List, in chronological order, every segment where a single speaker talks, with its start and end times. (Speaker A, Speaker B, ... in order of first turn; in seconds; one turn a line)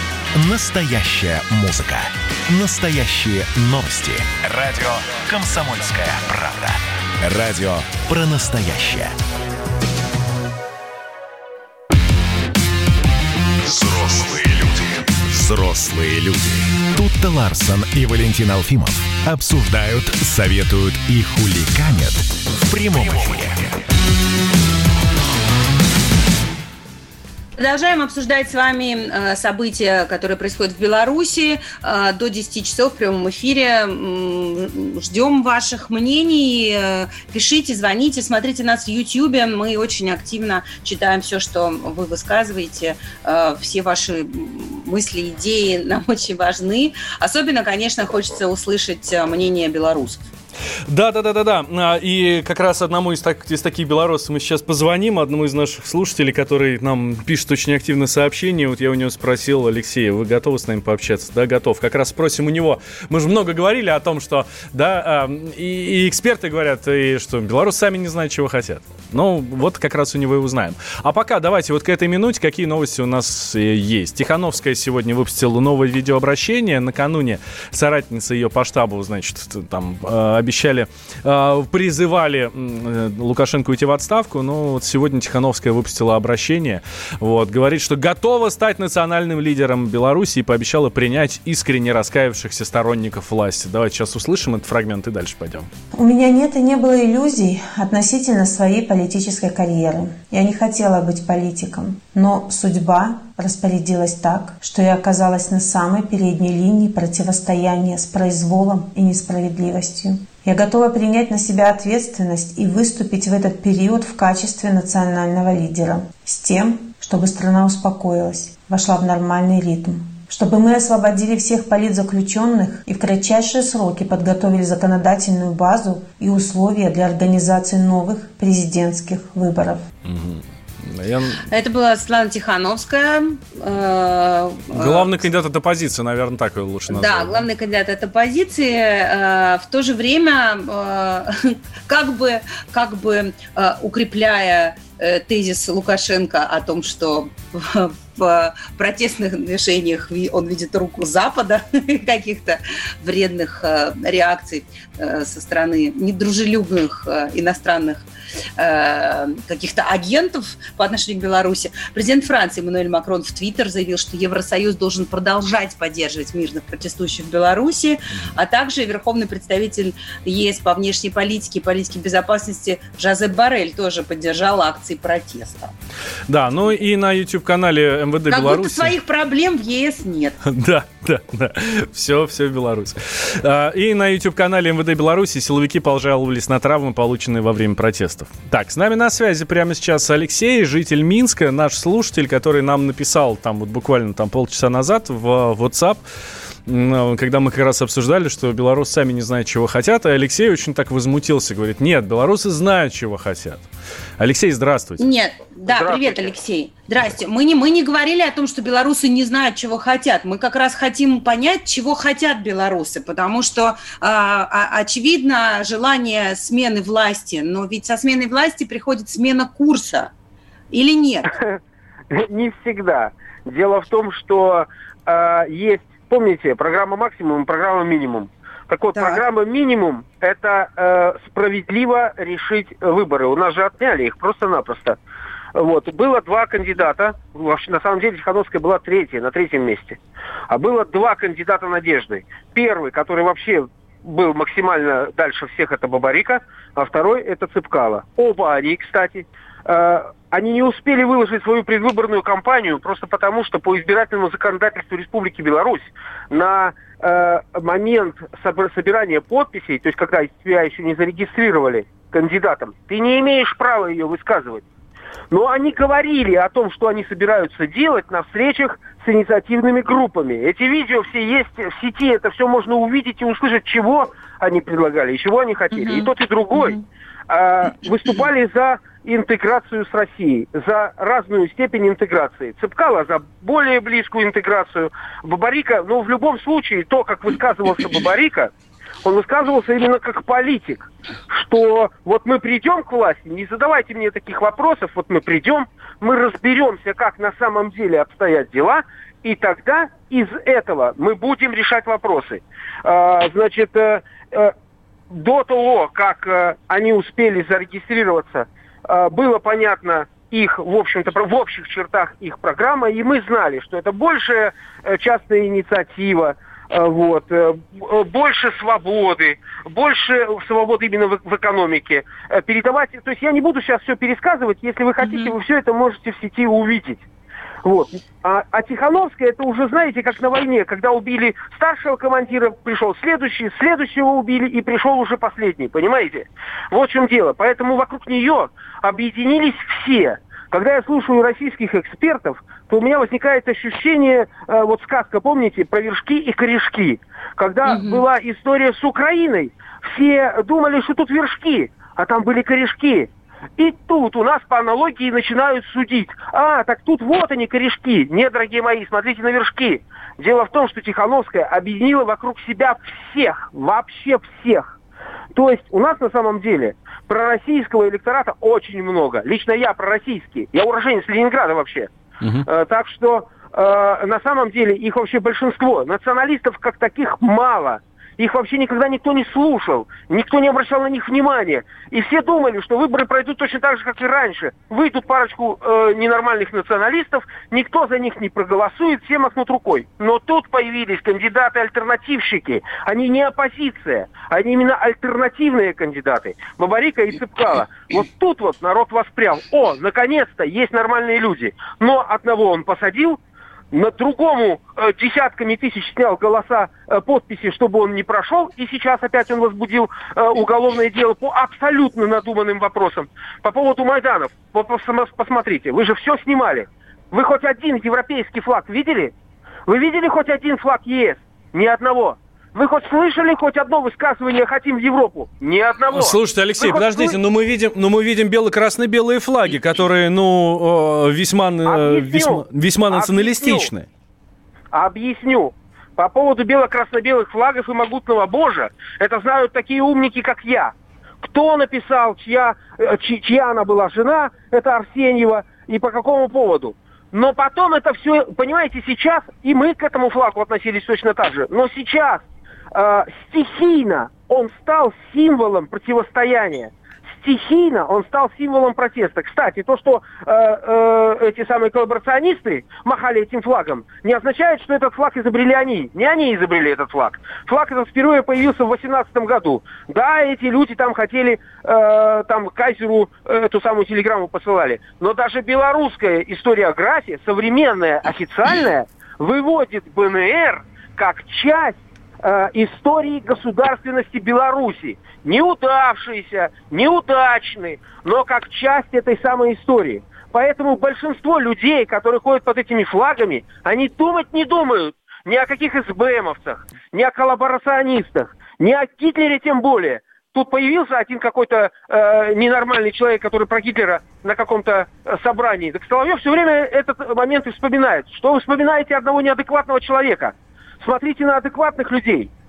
Speaker A: 0.3-9.2
Speaker A: 13.6-23.9
Speaker B: 27.6-50.2
Speaker C: 50.9-95.7
Speaker D: 95.9-129.8
Speaker C: 130.1-131.4
Speaker B: 131.4-135.1
Speaker C: 134.7-137.4
Speaker B: 136.9-158.0
Speaker B: 158.6-175.7
Speaker C: 176.3-178.9
Speaker B: 178.3-180.4
Speaker C: 180.5-196.0
Speaker C: 196.7-203.6
Speaker C: 204.2-205.0
Speaker B: 205.0-220.1
Speaker E: 205.7-206.3
Speaker B: 220.7-221.3
Speaker E: 222.1-235.0
Speaker B: 228.9-229.2
Speaker E: 235.5-264.6
Speaker E: 265.3-276.8
Speaker B: 275.7-276.8
Speaker E: 277.3-288.5
Speaker E: 289.0-304.5
Speaker E: 305.1-327.0
Speaker B: 325.0-325.3
Speaker E: 327.6-364.8
Speaker B: 347.6-348.0
Speaker E: 365.3-371.9
Speaker E: 372.4-403.2
Speaker E: 403.7-419.1
Speaker E: 419.7-427.1
Speaker C: 425.9-433.9
Speaker E: 431.6-433.7
Speaker E: 434.7-512.3